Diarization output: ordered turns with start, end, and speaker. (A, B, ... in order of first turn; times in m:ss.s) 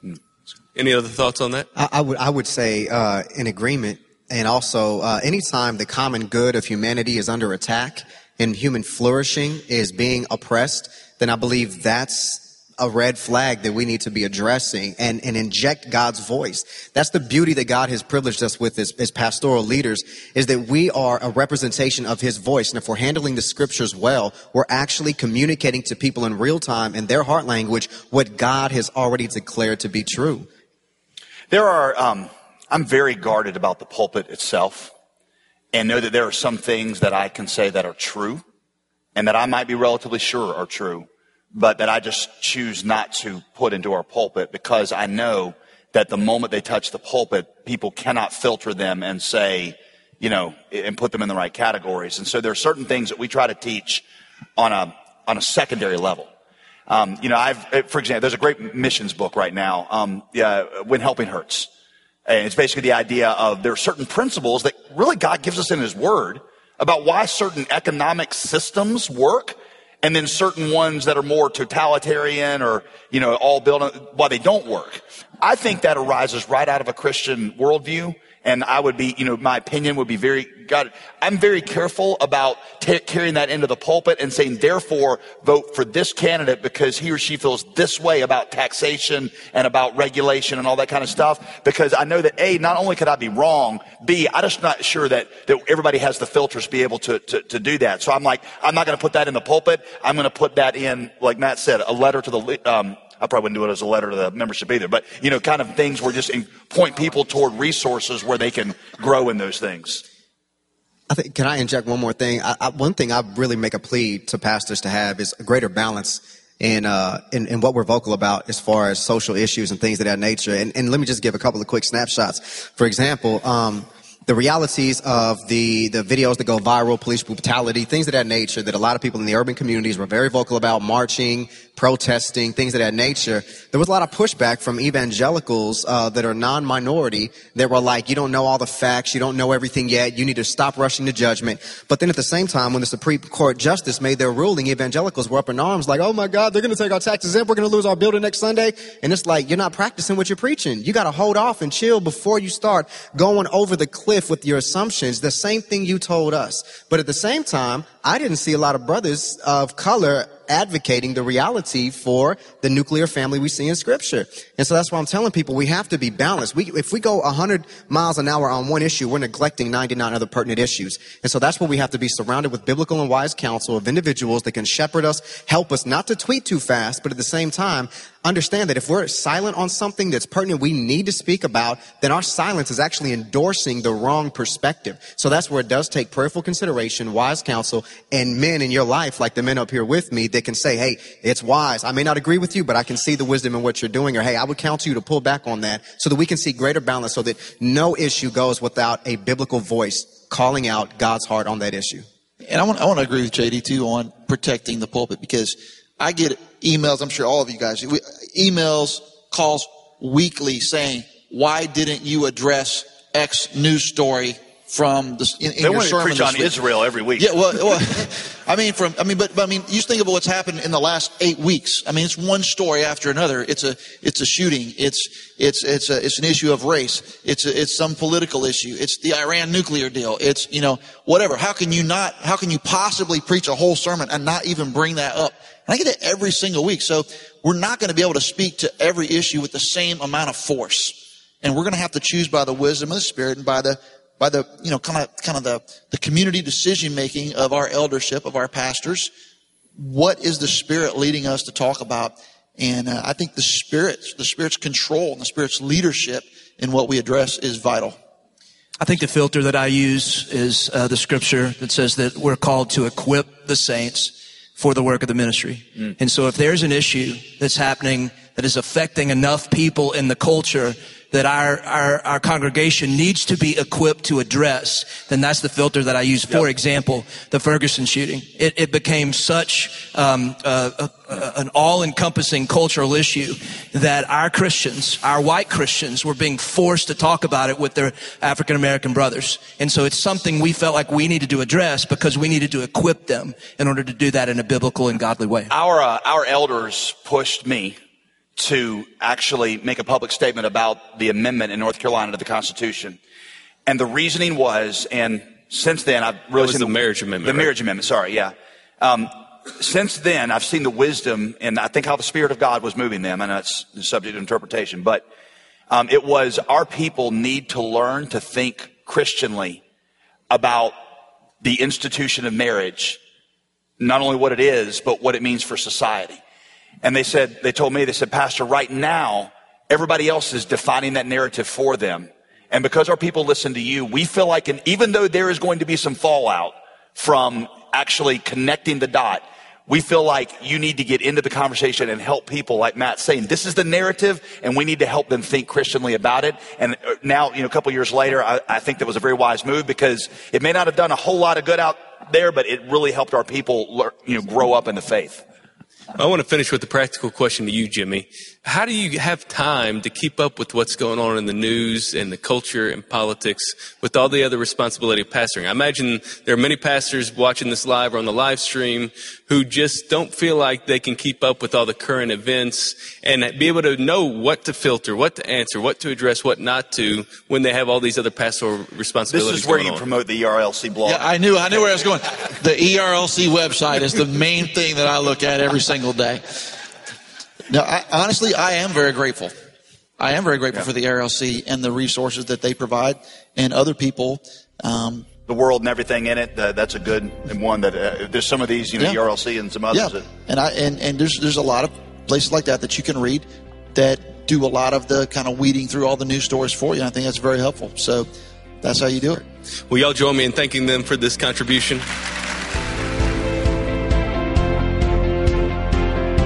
0:00.8-0:01.7 A
0:01.8-0:30.5 B
0:31.5-0:34.9 C
0:35.7-0:38.4 C
0:39.2-0:54.0 C
0:54.6-0:56.3 C
0:56.9-1:01.7 C
1:02.3-1:50.0 C
1:51.1-3:22.1 B
3:22.4-3:36.6 D
3:35.6-3:37.8 C
3:37.2-4:09.1 D
4:09.8-4:18.0 D
4:18.8-4:55.5 E
4:55.5-4:57.8 C
4:58.4-5:03.0 C
5:03.7-5:15.0 C
5:06.4-5:07.5 A
5:15.7-5:19.6 C
5:20.3-5:20.8 C
5:21.4-5:23.0 C
5:23.8-5:26.2 C
5:26.8-5:55.2 C
5:56.0-6:19.8 A
6:19.1-6:21.1 C
6:20.8-6:26.6 D
6:27.5-6:29.3 D
6:30.0-6:35.1 D
6:35.3-6:40.1 C
6:39.7-6:48.1 D
6:48.6-6:49.2 D
6:49.7-6:51.8 A